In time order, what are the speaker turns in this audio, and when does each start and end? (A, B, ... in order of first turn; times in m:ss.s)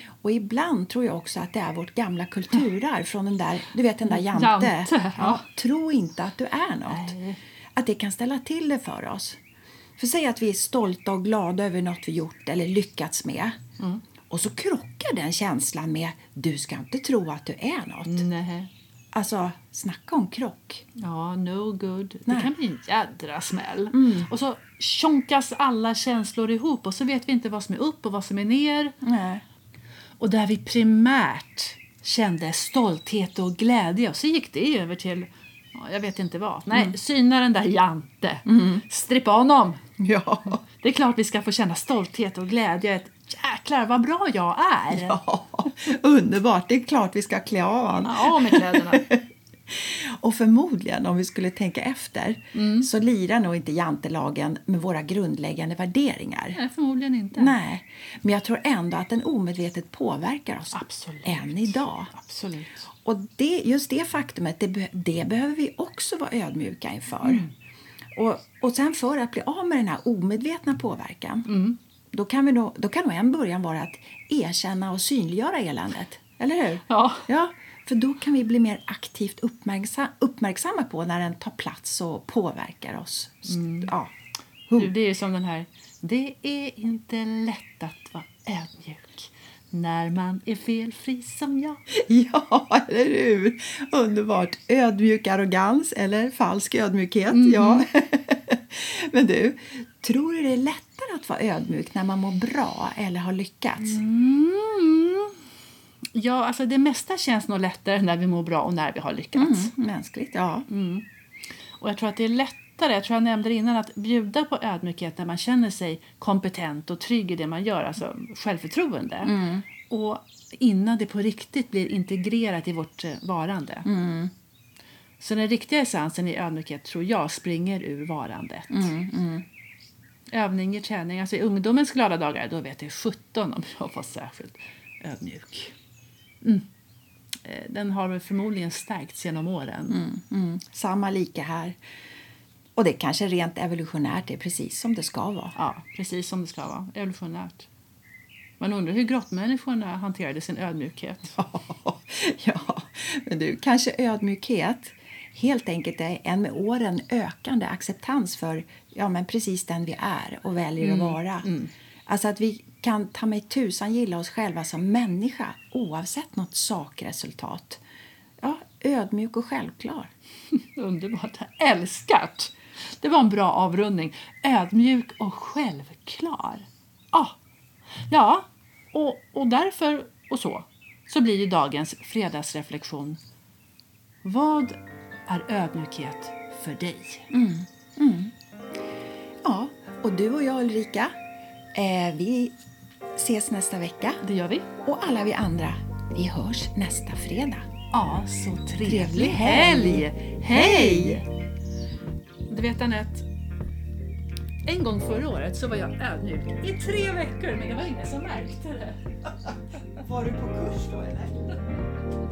0:00.2-0:07.1 A
0:04.0-0:05.4 B
0:06.9-0:07.4 B
0:07.8-0:09.4 A
0:10.0-0:13.5 A
0:14.3-0:18.2 A
0:18.0-0:18.7 B
0:19.1-0:20.8 A
0:21.0-0:29.0 B
0:22.3-0:22.5 A
0:23.9-0:24.3 A
0:29.0-0:29.4 A
0:30.2-0:39.8 B
0:38.4-0:38.8 A
0:40.0-0:40.6 A
0:40.7-0:45.2 B
0:44.9-0:56.6 A
0:48.0-0:49.1 B
0:52.5-0:52.9 B
0:56.5-0:57.6 B
0:57.3-1:02.1 A
1:00.7-1:02.8 B
1:03.0-1:07.4 A
1:07.2-1:07.5 B
1:08.1-1:11.5 A
1:11.5-1:11.8 B
1:12.1-1:24.1 A
1:16.9-1:17.3 B
1:23.5-1:23.9 B
1:24.8-1:31.8 B
1:31.9-1:44.0 A
1:37.3-1:37.8 B
1:43.8-1:45.4 B
1:46.1-1:49.7 B
1:49.3-1:50.7 A
1:50.7-1:51.0 B
1:51.8-2:03.9 B
1:59.2-1:59.6 A
2:03.8-2:04.3 A
2:05.2-2:08.9 B
2:08.7-2:09.4 A
2:10.3-2:15.7 B
2:17.4-2:20.0 B
2:19.9-2:21.8 A
2:22.8-2:25.6 A
2:25.6-2:27.7 B
2:28.6-2:31.4 B
2:31.4-2:41.5 A
2:40.8-2:41.7 B
2:42.0-2:47.8 A
2:48.4-2:50.1 A
2:50.5-2:57.4 B
2:58.1-3:03.2 B
3:04.2-3:07.3 B
3:07.3-3:08.3 A
3:09.4-3:11.1 A
3:11.7-3:12.6 A
3:13.1-3:14.2 A
3:14.2-3:14.7 B
3:14.8-3:17.6 A
3:17.9-3:21.2 B
3:18.8-3:21.2 A
3:22.5-3:23.2 B
3:24.6-3:29.0 B
3:30.0-3:31.6 A